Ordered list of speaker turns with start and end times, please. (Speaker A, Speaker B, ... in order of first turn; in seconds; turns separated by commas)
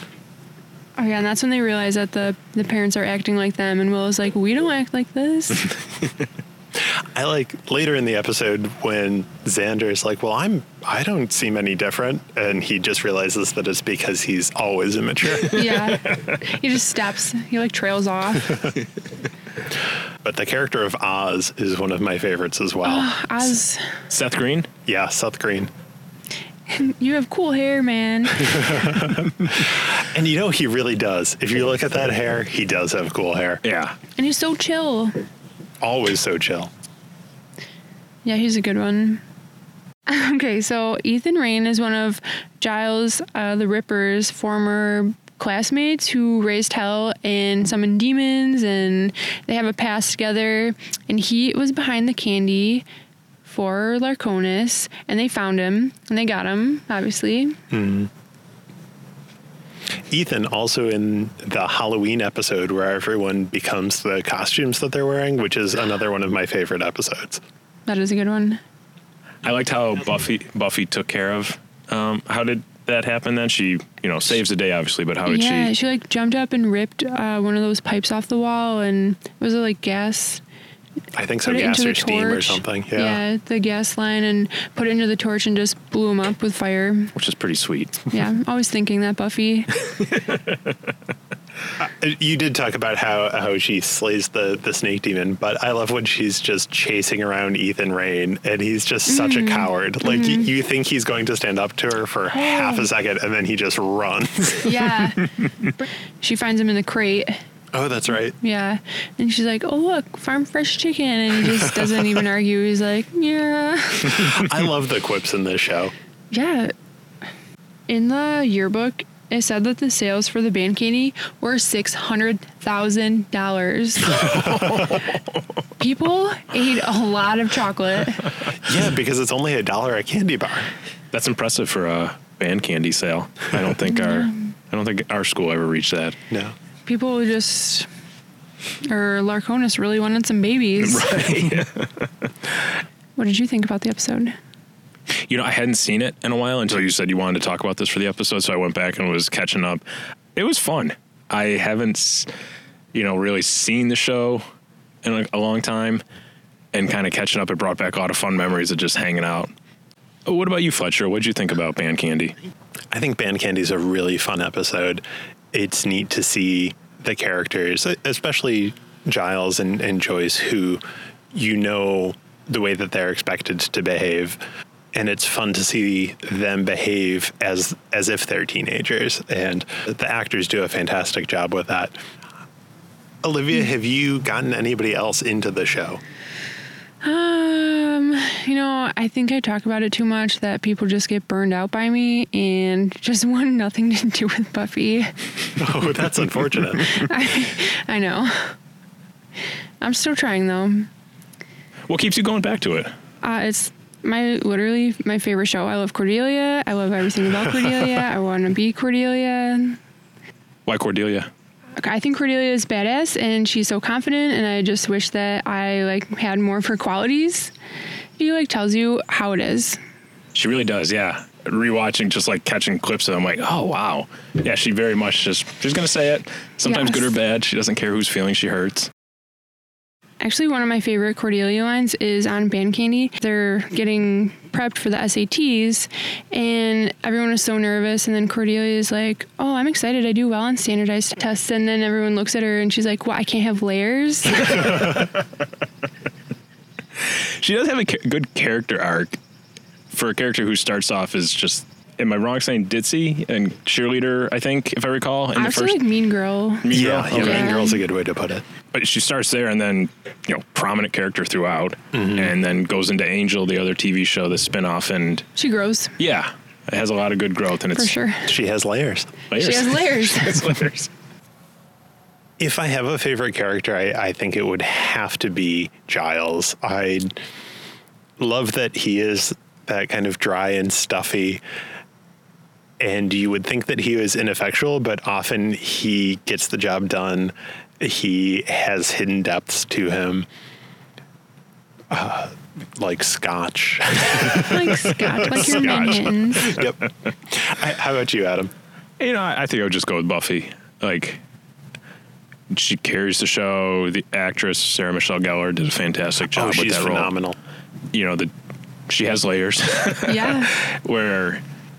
Speaker A: 0.9-5.7, Speaker B: 7.1-15.8, Speaker A: 15.4-18.7, Speaker C: 16.1-16.3, Speaker B: 20.2-23.1, Speaker A: 22.8-23.9, Speaker C: 24.1-24.7, Speaker B: 24.9-25.7, Speaker A: 26.7-29.0, Speaker B: 28.4-33.6, Speaker C: 33.6-34.0, Speaker A: 34.2-35.1, Speaker B: 35.8-36.7, Speaker A: 38.2-39.2, Speaker A: 40.1-52.9, Speaker A: 53.5-57.6, Speaker B: 57.7-58.1, Speaker B: 60.1-67.4, Speaker A: 67.9-68.6, Speaker C: 69.4-75.7, Speaker A: 75.2-80.4, Speaker B: 81.1-83.2, Speaker A: 81.4-87.1, Speaker C: 87.1-88.0, Speaker A: 88.1-89.7, Speaker C: 89.9-90.8, Speaker B: 91.8-105.0, Speaker A: 99.1-100.5, Speaker A: 102.3-102.9, Speaker A: 104.6-107.4, Speaker B: 107.7-108.3, Speaker A: 108.4-114.3, Speaker B: 114.0-115.9, Speaker A: 116.3-116.7, Speaker A: 117.9-124.5, Speaker C: 124.1-125.4, Speaker A: 125.8-128.3, Speaker B: 128.6-130.7, Speaker C: 131.1-136.2, Speaker A: 133.9-134.4, Speaker A: 136.9-137.9, Speaker A: 138.9-141.4, Speaker C: 140.8-142.3, Speaker A: 143.2-144.3, Speaker C: 145.1-149.8, Speaker C: 150.3-152.3, Speaker C: 152.9-154.4, Speaker C: 155.0-156.0, Speaker C: 156.7-159.5, Speaker C: 160.2-162.3, Speaker B: 162.9-170.8, Speaker B: 171.3-174.4, Speaker B: 174.9-182.0, Speaker B: 183.2-186.0, Speaker A: 187.0-195.1, Speaker B: 195.6-197.1, Speaker A: 196.8-198.5, Speaker A: 199.8-200.9, Speaker C: 201.9-202.9, Speaker A: 203.2-209.8, Speaker C: 210.7-211.3, Speaker A: 211.8-217.5, Speaker A: 218.2-219.8, Speaker C: 220.3-228.9, Speaker A: 226.6-227.1, Speaker A: 230.2-245.1, Speaker C: 247.0-249.2, Speaker C: 249.9-255.8, Speaker A: 255.3-257.8, Speaker C: 256.6-257.6, Speaker B: 256.7-258.4, Speaker C: 258.7-265.3, Speaker B: 261.9-262.3, Speaker A: 265.4-265.9, Speaker C: 266.0-267.9, Speaker A: 267.7-268.3, Speaker B: 268.2-269.2, Speaker C: 269.3-270.9, Speaker A: 269.3-270.6, Speaker B: 272.4-277.2, Speaker B: 278.2-281.4, Speaker B: 282.8-290.3, Speaker B: 291.9-298.5, Speaker A: 294.2-296.6, Speaker C: 295.3-296.6, Speaker C: 299.0-301.2, Speaker C: 302.5-307.1, Speaker B: 306.3-307.4, Speaker C: 307.9-308.3, Speaker C: 308.9-311.4, Speaker A: 310.1-310.6